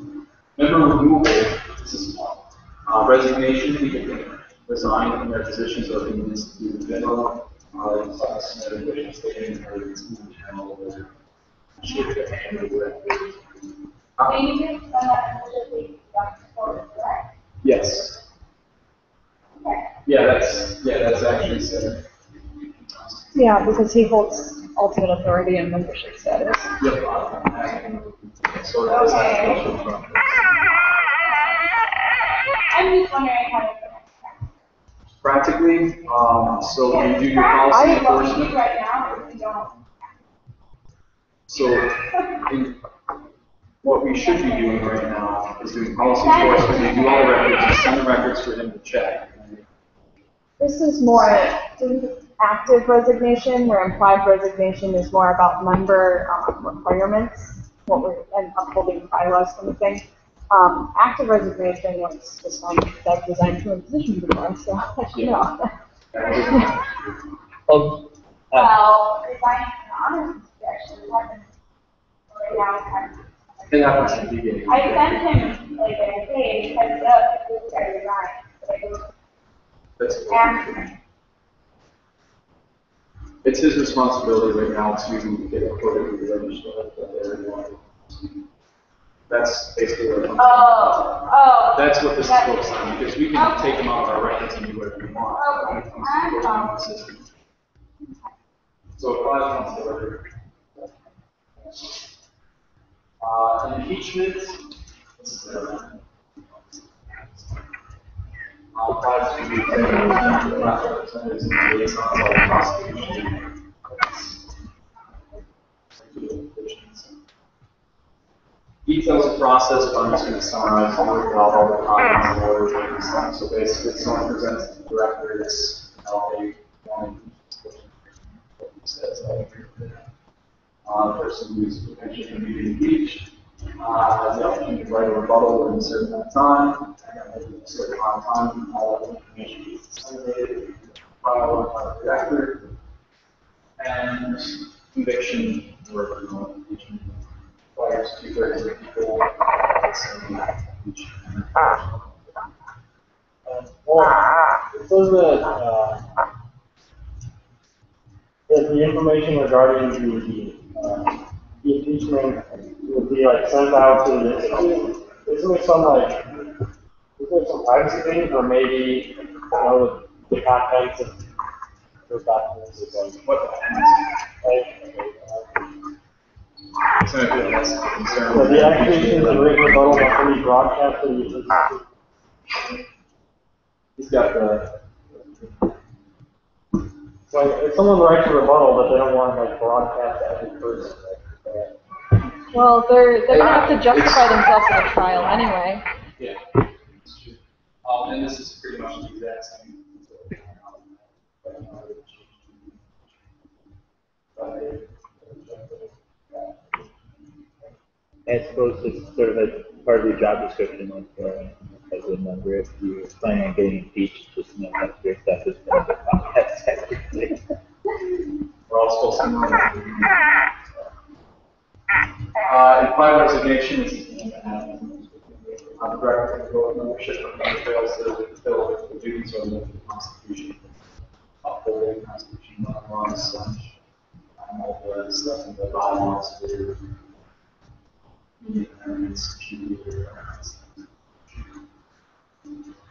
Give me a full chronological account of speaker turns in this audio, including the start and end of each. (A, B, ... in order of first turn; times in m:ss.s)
0:00.6-0:11.1 A
0:11.8-0:13.6 A
0:14.2-0:17.3 B
0:17.6-0:18.2 A
0:19.6-0:19.9 B
0:20.0-0:22.0 A
0:22.9-0:23.3 A
0:23.3-0:26.7 C
0:26.8-0:30.5 A
0:28.9-0:29.7 B
0:32.7-0:34.4 B
0:35.2-0:38.5 A
0:36.8-0:39.8 B
0:37.7-0:38.0 C
0:41.5-0:42.8 A
0:43.8-0:49.6 A
0:44.1-0:44.7 B
0:46.0-0:47.9 B
0:50.6-1:05.7 C
1:06.1-1:07.1 A
1:07.7-1:08.7 D
1:08.5-1:11.5 B
1:12.3-1:19.1 B
1:13.7-1:15.4 A
1:20.0-1:20.8 A
1:20.3-1:20.9 B
1:23.4-1:28.3 A
1:29.3-1:31.2 A
1:30.4-1:33.8 B
1:31.7-1:37.2 A
1:35.3-1:36.8 B
1:39.0-1:40.3 A
1:43.2-1:44.6 A
1:45.2-1:46.0 A
1:46.5-1:47.6 A
1:48.7-1:54.5 A
1:56.0-1:57.1 A
1:58.8-2:10.0 A
2:10.8-2:22.7 A
2:23.8-2:32.1 A
2:33.4-2:36.0 E
2:38.5-2:46.3 E
2:47.2-2:51.2 E
2:52.1-2:53.2 E
2:52.8-2:54.1 A
2:54.4-2:55.6 E
2:57.0-3:00.3 A
2:58.2-3:01.8 E
3:04.0-3:04.8 A
3:05.4-3:05.7 A
3:07.3-3:11.7 E
3:12.5-3:15.8 C
3:13.3-3:14.4 A
3:16.2-3:23.1 A
3:24.4-3:26.5 A
3:28.2-3:37.4 D
3:38.7-3:40.9 A
3:42.4-3:50.8 A
3:51.4-3:53.7 A
3:54.4-3:56.8 A
3:58.4-4:00.8 A